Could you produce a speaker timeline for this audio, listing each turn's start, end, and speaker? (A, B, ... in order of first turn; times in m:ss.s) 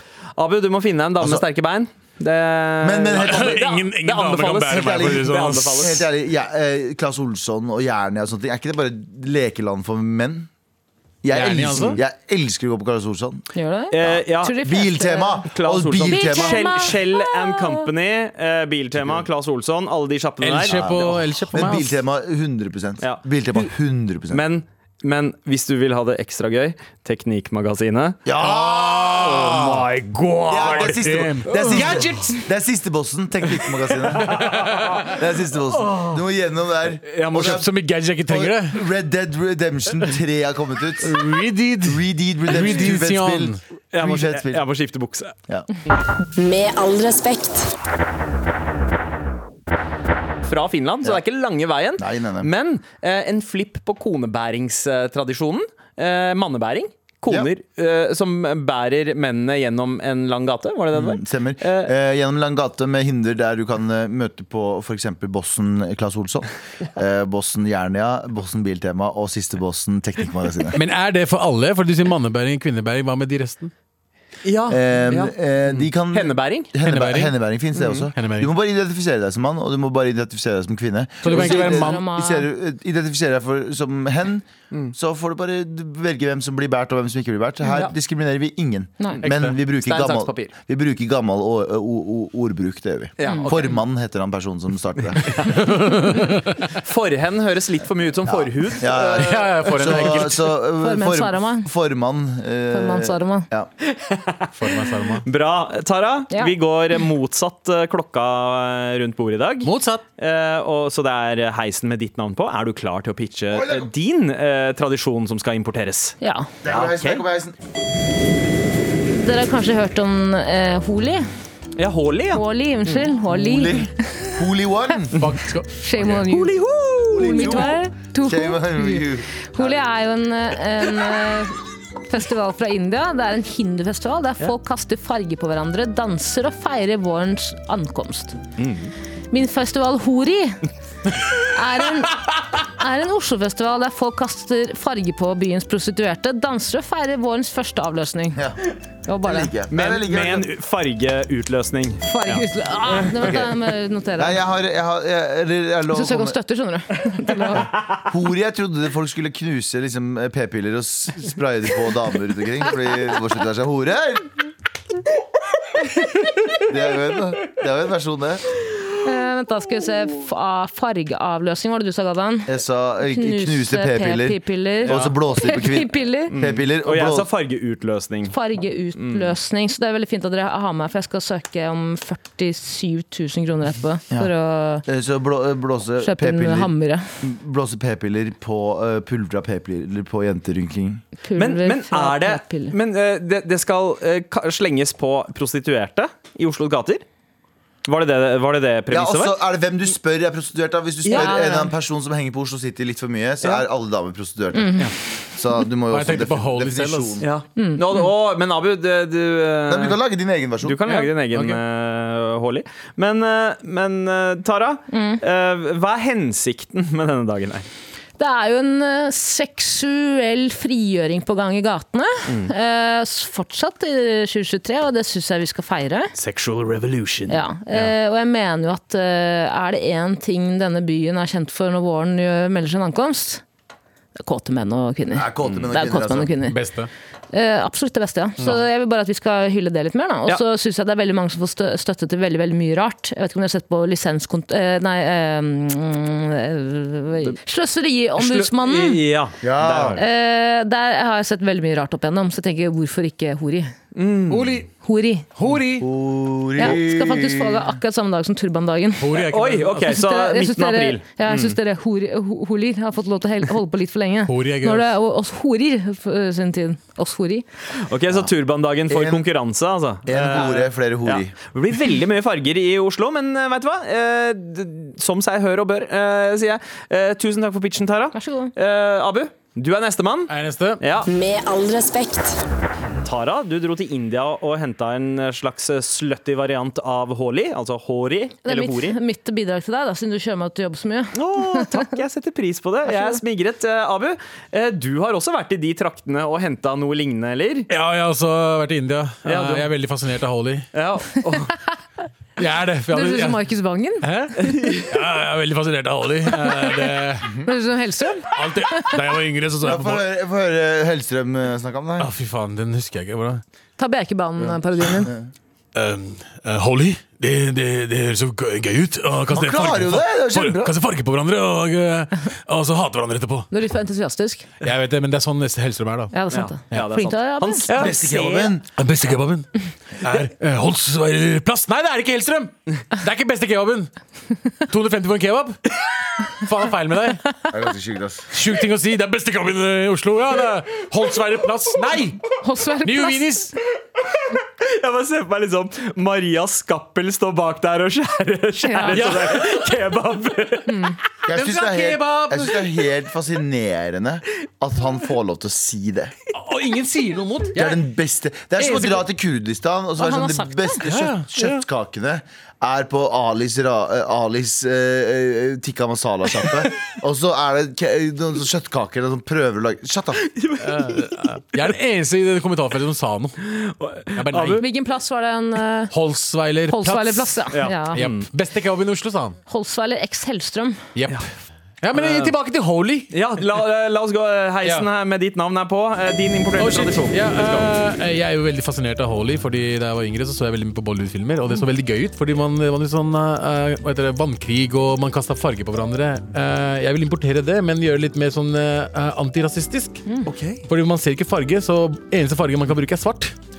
0:00.4-0:06.0 A
0:02.8-0:03.7 B
0:03.2-0:05.9 C
0:04.7-0:10.5 B
0:11.2-0:13.5 B
0:11.3-0:12.0 C
0:13.5-0:15.4 D
0:13.9-0:14.6 A
0:14.0-0:16.8 B
0:15.5-0:21.2 A
0:16.0-0:17.8 D
0:20.4-0:22.0 C
0:21.5-0:24.4 B
0:24.3-0:28.2 A
0:28.2-0:29.8 B
0:28.4-0:32.4 C
0:29.4-0:31.0 A
0:30.5-0:34.5 B
0:31.7-0:32.1 A
0:34.1-0:35.1 A
0:34.3-0:35.1 C
0:35.1-0:37.7 B
0:35.7-0:36.2 A
0:37.1-0:37.6 A
0:37.2-0:38.8 C
0:38.3-0:41.2 B
0:41.0-0:43.6 C
0:41.8-0:44.6 B
0:43.9-0:45.3 A
0:46.3-0:47.7 E
0:50.4-1:01.9 A
0:52.0-0:52.5 B
1:00.9-1:10.8 B
1:10.8-1:13.7 C
1:14.4-1:16.7 A
1:14.7-1:35.4 B
1:16.8-1:17.3 C
1:17.8-1:18.0 A
1:18.1-1:18.5 C
1:21.2-1:22.0 C
1:21.3-1:22.5 D
1:29.1-1:30.5 A
1:29.2-1:29.5 C
1:33.2-1:33.8 A
1:35.3-1:35.6 A
1:35.4-1:36.6 C
1:36.2-1:40.2 A
1:38.3-1:43.7 B
1:39.2-1:40.5 C
1:40.8-1:41.7 D
1:42.7-1:43.5 D
1:43.8-1:56.2 A
1:44.6-1:45.2 C
1:49.6-1:50.0 C
1:53.5-1:53.9 B
1:56.2-1:56.5 D
1:56.6-1:57.6 B
1:56.7-1:57.2 A
1:59.1-2:01.2 D
2:01.8-2:03.0 A
2:02.3-2:04.4 D
2:03.3-2:05.1 B
2:05.2-2:06.2 C
2:05.7-2:06.5 D
2:06.3-2:07.7 A
2:07.1-2:09.8 B
2:07.1-2:11.6 D
2:12.1-2:18.4 D
2:18.6-2:18.9 A
2:19.3-2:20.6 D
2:21.4-2:28.4 D
2:28.3-2:28.6 B
2:29.1-2:29.5 D
2:29.2-2:30.5 B
2:29.7-2:32.4 A
2:32.0-2:34.4 D
2:33.1-2:33.6 B
2:34.2-2:36.4 B
2:35.9-2:37.7 D
2:38.0-2:44.3 B
2:46.6-2:48.4 B
2:49.0-2:52.5 D
2:52.5-2:57.3 B
2:53.1-2:56.3 D
2:54.8-2:55.1 A
2:56.3-2:58.4 A
2:58.3-3:04.8 D
2:59.0-2:59.3 A
3:04.8-3:11.0 B
3:06.0-3:07.0 D
3:11.2-3:12.7 D
3:11.4-3:17.0 A
3:17.8-3:19.4 A
3:18.9-3:27.2 B
3:21.0-3:21.3 A
3:21.1-3:21.7 D
3:24.5-3:24.9 D
3:25.9-3:27.2 C
3:27.2-3:30.0 A
3:27.6-3:27.8 D
3:29.7-3:30.9 B
3:30.6-3:37.7 A
3:30.9-3:31.6 C
3:34.9-3:35.2 D
3:38.2-3:46.1 D
3:42.3-3:42.5 A
3:46.2-3:47.9 A
3:47.3-3:53.4 D
3:54.2-3:56.6 D
3:55.1-3:56.3 B
3:56.4-3:56.9 C
3:57.3-4:09.0 D
4:08.2-4:10.0 A
4:09.4-4:10.0 B
4:09.9-4:13.7 D
4:13.9-4:14.6 A
4:14.3-4:14.7 C
4:14.8-4:15.3 D
4:15.4-4:15.9 C
4:15.8-4:17.7 B
4:16.6-4:19.2 D
4:19.0-4:19.9 C
4:19.1-4:21.6 A
4:19.8-4:27.4 D
4:24.3-4:24.9 C
4:27.8-4:41.1 A
4:28.9-4:29.2 B
4:30.0-4:31.3 B
4:38.1-4:38.5 D
4:40.3-4:40.8 C
4:41.0-4:42.4 E
4:43.0-4:49.0 A
4:48.4-4:51.9 D
4:51.1-4:57.7 A
4:52.9-4:53.2 D
4:57.7-5:00.6 C
4:59.2-4:59.7 A
5:00.7-5:01.5 A
5:02.4-5:03.4 C
5:02.9-5:04.1 D
5:04.0-5:07.3 C
5:04.4-5:04.8 A
5:06.5-5:06.8 D
5:07.4-5:09.0 D
5:08.3-5:10.0 C
5:09.6-5:12.1 B
5:12.0-5:13.4 C
5:13.8-5:15.1 D
5:15.0-5:15.3 B
5:15.7-5:23.5 C
5:19.3-5:20.7 B
5:23.5-5:24.5 D
5:24.6-5:26.1 C
5:26.1-5:27.7 D
5:26.3-5:28.5 A
5:26.7-5:27.0 C
5:27.7-5:28.6 B
5:28.8-5:29.5 C
5:30.0-5:33.9 C
5:34.7-5:35.6 C
5:36.3-5:37.3 C
5:37.5-5:38.3 B
5:38.3-5:42.2 C
5:42.4-5:43.3 D
5:42.8-5:43.5 C
5:44.6-5:50.8 A
5:48.6-5:49.0 D
5:48.9-5:49.7 C
5:50.7-5:51.0 D
5:51.3-5:56.1 B
5:51.3-5:52.7 C
5:56.3-5:57.8 C
5:57.5-6:10.3 B
5:58.6-5:59.0 C
6:00.0-6:00.8 D
6:00.8-6:01.6 C
6:10.3-6:11.2 A
6:10.6-6:13.4 C
6:13.4-6:14.6 A
6:14.1-6:14.6 C
6:14.6-6:15.9 D
6:15.9-6:19.4 C
6:16.7-6:18.0 D
6:17.5-6:18.3 A
6:19.5-6:20.8 D
6:20.9-6:21.3 C
6:21.8-6:23.1 C
6:21.9-6:22.3 A
6:23.1-6:27.7 A
6:24.6-6:24.9 C
6:26.6-6:40.0 C
6:40.2-6:40.6 A
6:40.7-6:43.3 C